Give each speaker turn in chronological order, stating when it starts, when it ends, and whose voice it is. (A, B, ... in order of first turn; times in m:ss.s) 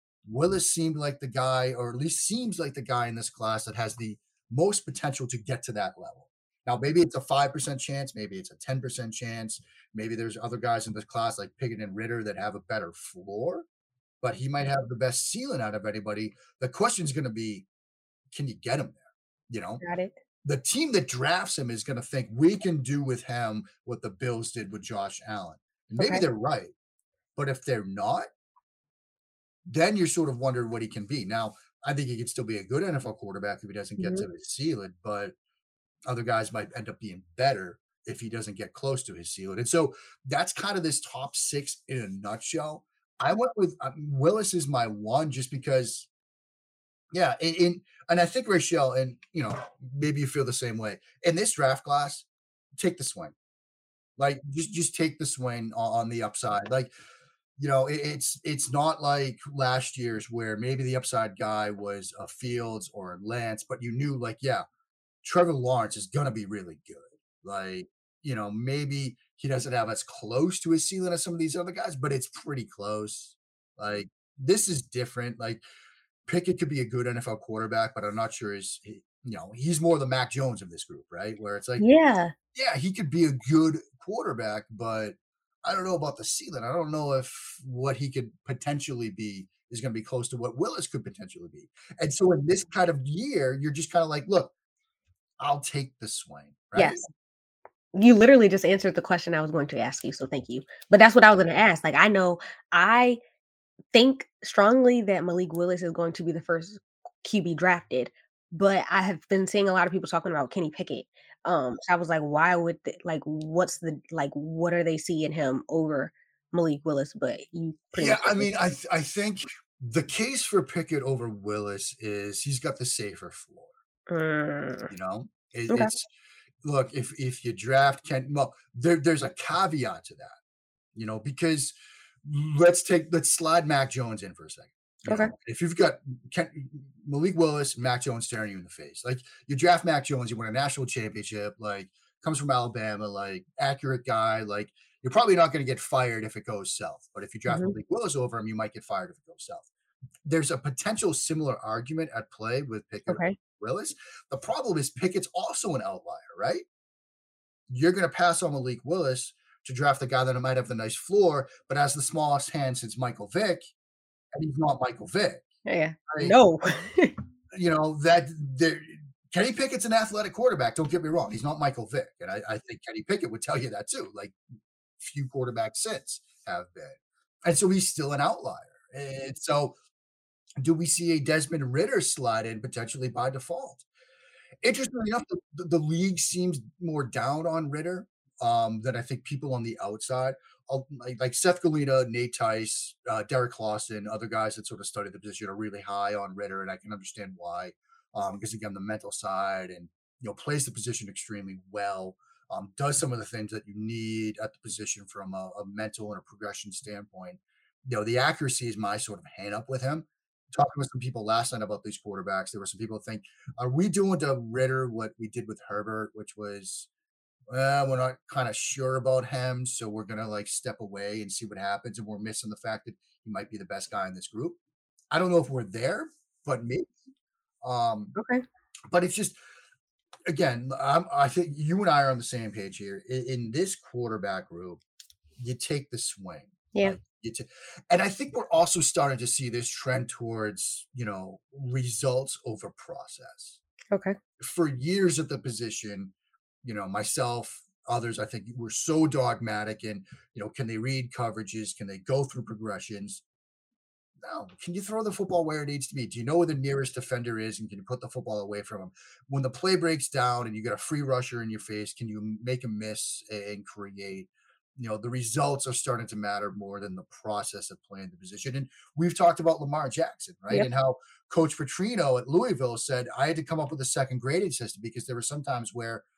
0:00.3-0:13.7 A
0:14.2-0:17.7 A
0:18.3-0:19.8 A
0:19.8-0:20.1 B
0:20.4-0:26.7 A
0:26.0-0:26.2 B
0:27.4-0:28.3 A
0:29.7-0:35.3 A
0:34.0-0:34.2 B
0:36.1-0:46.1 A
0:47.1-0:53.4 A
0:54.2-0:56.9 A
0:57.6-1:04.6 A
1:05.2-1:15.6 A
1:16.3-1:21.8 A
1:21.8-1:22.3 B
1:22.5-1:34.5 A
1:35.4-1:37.0 A
1:36.8-1:37.0 B
1:37.9-1:43.2 B
1:43.9-1:58.5 B
1:58.0-2:03.7 A
2:04.1-2:04.9 B
2:04.9-2:06.1 A
2:06.6-2:10.4 A
2:11.0-2:11.7 A
2:12.2-2:29.7 A
2:27.5-2:27.8 B
2:30.2-2:36.6 A
2:33.1-2:33.4 B
2:37.7-2:43.7 A
2:44.3-2:45.5 A
2:45.7-2:47.2 B
2:46.1-2:46.4 A
2:47.5-2:54.4 A
2:55.0-2:59.8 A
3:00.6-3:03.8 A
3:04.6-3:36.9 A
3:37.5-3:44.6 A
3:45.1-3:46.9 A
3:47.6-3:48.2 A
3:48.2-3:48.4 B
3:48.9-3:49.4 A
3:50.3-3:54.8 A
3:55.4-4:03.6 A
4:04.4-4:06.1 A
4:06.6-4:13.2 A
4:14.2-4:36.0 A